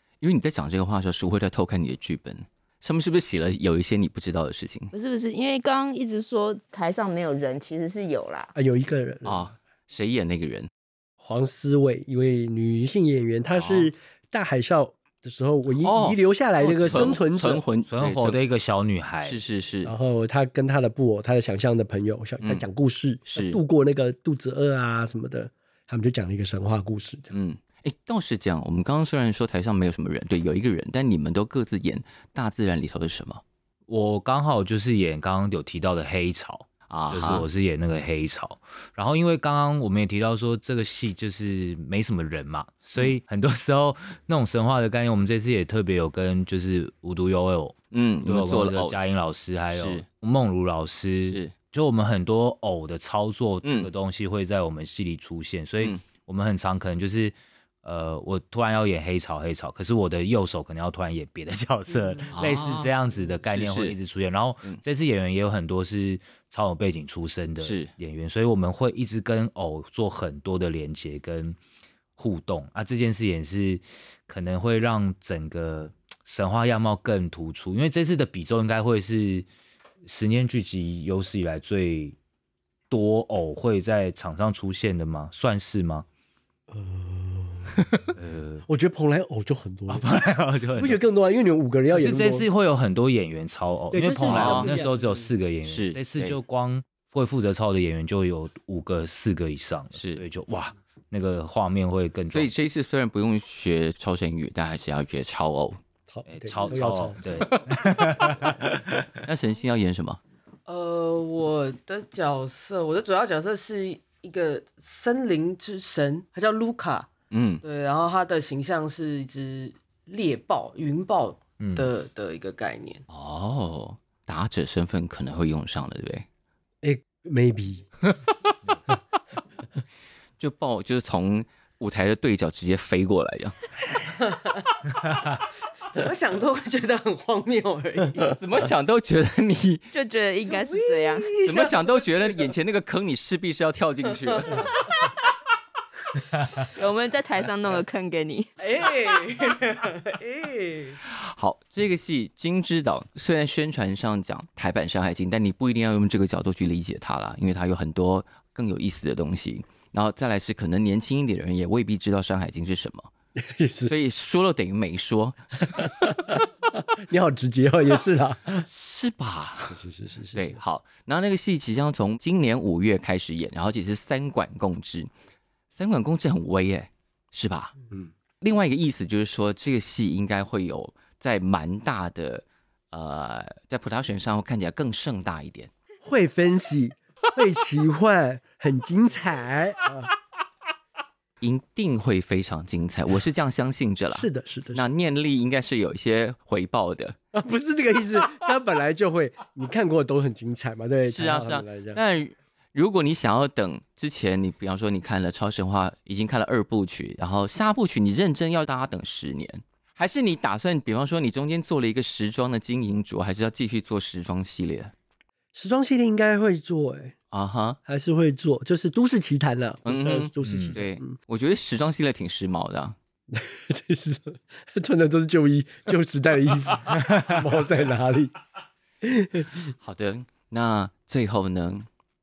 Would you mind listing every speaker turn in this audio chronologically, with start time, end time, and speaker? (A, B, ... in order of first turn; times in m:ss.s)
0:00.2-0:04.9 A
0:04.9-0:08.5 B
0:08.5-0:09.5 C
0:09.2-0:10.7 A
0:11.2-0:17.6 C
0:13.6-0:13.9 A
0:15.8-0:18.4 A
0:17.9-0:19.4 D
0:19.2-0:19.9 A
0:19.8-0:27.3 C
0:23.3-0:23.6 A
0:27.3-0:33.4 A
0:33.9-1:11.6 D
0:36.9-0:37.4 A
0:47.9-0:49.0 A
0:49.7-0:50.0 A
0:51.2-0:51.5 A
0:53.6-0:53.9 A
1:02.3-1:02.9 A
1:03.4-1:04.0 A
1:07.6-1:07.9 A
1:12.2-1:19.5 D
1:20.0-1:22.2 D
1:22.9-1:26.0 D
1:26.7-1:27.9 C
1:28.1-1:28.6 D
1:28.7-1:30.1 C
1:29.9-1:31.0 D
1:30.8-1:32.5 C
1:31.9-1:42.5 D
1:33.9-1:35.3 C
1:34.2-1:34.7 A
1:35.6-1:36.4 A
1:40.0-1:40.2 A
1:42.3-1:45.8 A
1:46.1-1:47.5 C
1:46.3-1:48.7 D
1:48.7-1:50.2 A
1:50.6-1:57.1 E
1:57.3-1:57.6 A
1:57.6-2:03.0 E
2:01.6-2:01.9 D
2:03.1-2:06.2 A
2:06.8-2:07.8 C
2:10.4-2:13.7 A
2:14.0-2:14.8 E
2:15.9-2:18.4 E
2:18.3-2:19.8 A
2:19.9-2:21.4 B
2:20.6-2:22.5 E
2:21.4-2:24.7 A
2:24.2-2:24.7 E
2:26.6-2:28.5 B
2:28.6-2:31.0 E
2:31.0-2:43.1 A
2:43.4-2:43.9 C
2:43.9-2:45.9 A
2:45.7-2:48.6 C
2:48.6-2:49.8 A
2:49.7-2:50.6 C
2:50.3-2:55.1 A
2:55.7-2:57.7 A
2:58.4-3:05.7 A
3:06.0-3:10.1 C
3:11.4-3:17.2 A
3:14.1-3:14.9 C
3:17.3-3:22.0 C
3:21.0-3:34.9 A
3:35.5-3:37.1 C
3:37.3-3:37.8 A
3:37.8-3:41.2 C
3:39.8-3:42.9 A
3:40.4-3:40.8 D
3:43.3-3:48.4 C
3:49.0-3:49.7 C
3:49.8-3:51.9 A